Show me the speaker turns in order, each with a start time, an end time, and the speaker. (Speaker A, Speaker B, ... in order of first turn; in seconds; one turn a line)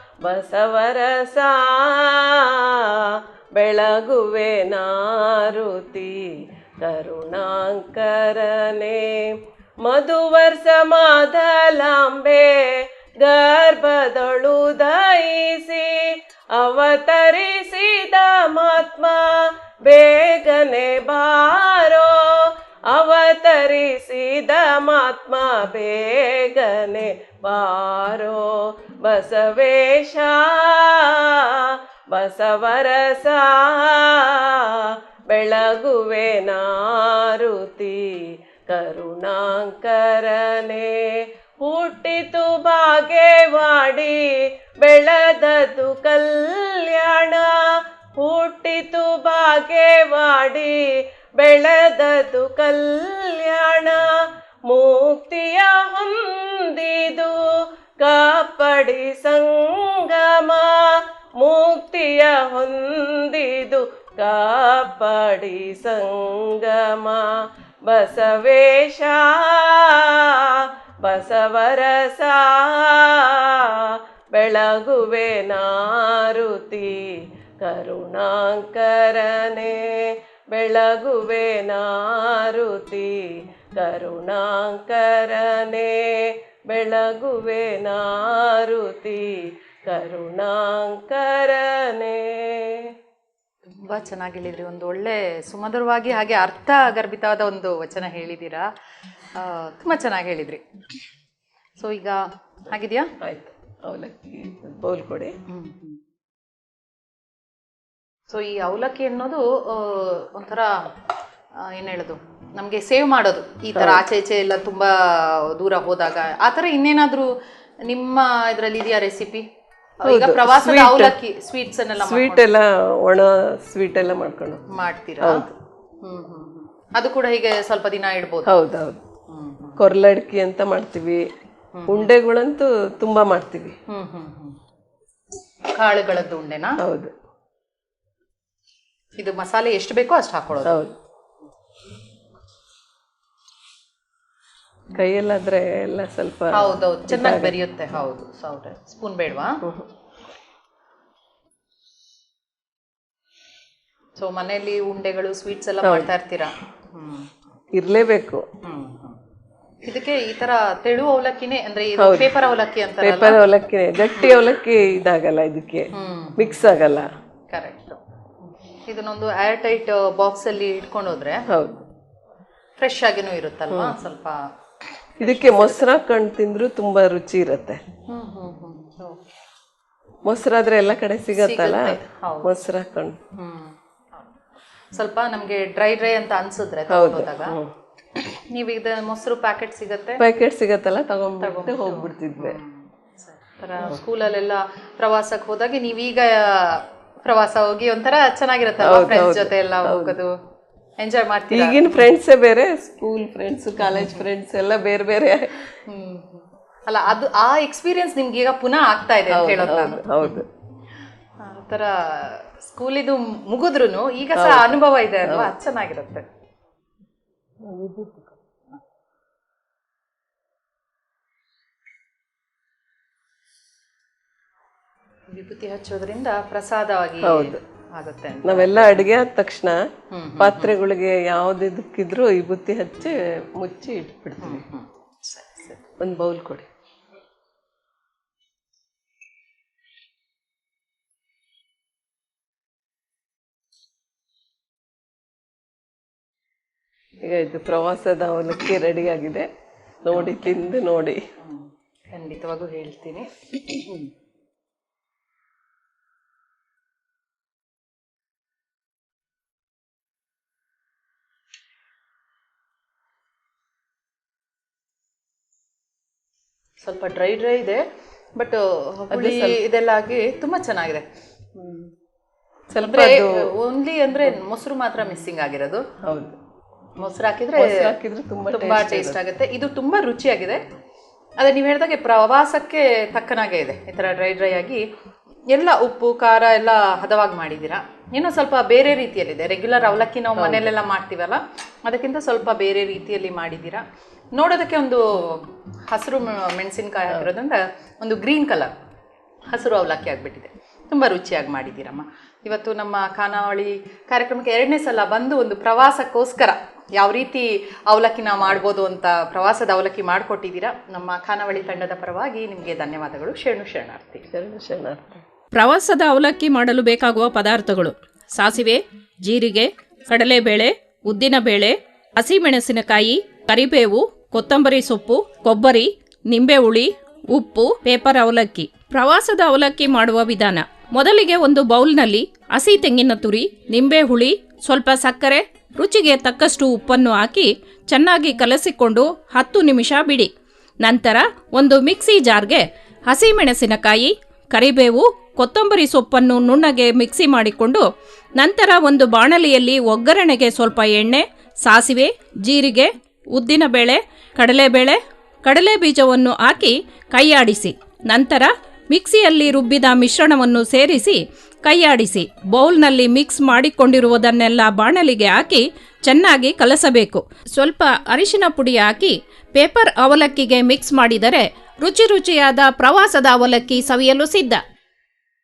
Speaker A: 0.2-3.0
Speaker A: 3.5-6.3
Speaker A: 6.8-9.3
Speaker A: 9.8-38.2
Speaker A: 38.7-54.1
Speaker A: 54.7-57.4
Speaker A: 58.0-92.9
Speaker B: 93.8-98.7
Speaker B: 99.3-100.6
Speaker B: 101.8-103.1
Speaker A: 103.2-105.3
Speaker B: 105.5-106.0
Speaker B: 108.3-110.8
Speaker B: 111.6-117.3
Speaker A: 113.7-114.0
Speaker B: 117.9-119.4
Speaker B: 120.0-122.5
Speaker A: 120.0-121.1
Speaker A: 122.0-124.6
Speaker B: 124.7-125.5
Speaker A: 125.2-125.5
Speaker B: 126.0-128.5
Speaker A: 128.4-129.0
Speaker B: 129.3-129.8
Speaker A: 129.8-131.2
Speaker B: 131.7-132.1
Speaker A: 131.9-133.7
Speaker B: 133.9-134.6
Speaker B: 135.7-136.8
Speaker A: 136.8-137.1
Speaker B: 139.2-140.8
Speaker A: 140.6-140.9
Speaker A: 144.9-147.5
Speaker B: 146.5-149.6
Speaker B: 154.2-157.3
Speaker A: 155.8-156.1
Speaker A: 157.7-158.4
Speaker B: 158.6-159.2
Speaker B: 159.8-163.4
Speaker A: 162.0-162.3
Speaker A: 163.0-167.1
Speaker B: 164.2-164.4
Speaker B: 165.9-166.6
Speaker B: 167.5-168.0
Speaker B: 168.9-171.4
Speaker A: 171.5-171.8
Speaker B: 172.8-174.4
Speaker A: 173.7-173.9
Speaker B: 175.2-175.8
Speaker A: 175.2-177.8
Speaker B: 178.1-179.3
Speaker A: 180.2-183.2
Speaker B: 181.3-182.5
Speaker B: 183.3-184.4
Speaker B: 184.9-187.5
Speaker A: 186.9-187.7
Speaker B: 188.5-190.2
Speaker A: 190.2-192.6
Speaker B: 191.4-200.3
Speaker A: 198.8-200.2
Speaker B: 201.0-202.1
Speaker A: 201.5-205.7
Speaker B: 203.8-204.2
Speaker B: 205.9-210.4
Speaker A: 209.3-210.5
Speaker B: 211.4-216.2
Speaker A: 214.3-215.5
Speaker A: 217.6-218.3
Speaker B: 225.3-229.1
Speaker A: 227.2-227.6
Speaker A: 228.4-229.8
Speaker B: 230.1-230.7
Speaker A: 230.4-234.6
Speaker B: 234.4-235.8
Speaker A: 236.0-236.7
Speaker A: 247.2-249.5
Speaker A: 250.0-251.2
Speaker B: 250.1-250.6
Speaker B: 251.4-254.1
Speaker B: 266.8-267.8
Speaker B: 268.4-271.0
Speaker A: 269.1-269.6
Speaker B: 271.6-271.9
Speaker A: 272.7-273.5
Speaker B: 272.8-275.8
Speaker A: 276.0-276.4
Speaker B: 277.0-277.9
Speaker A: 277.6-279.2
Speaker B: 278.5-280.6
Speaker B: 281.4-284.8
Speaker B: 285.5-298.7
Speaker A: 290.3-290.7
Speaker B: 299.5-314.2
Speaker A: 314.3-315.2
Speaker C: 315.5-340.3
Speaker C: 340.8-374.6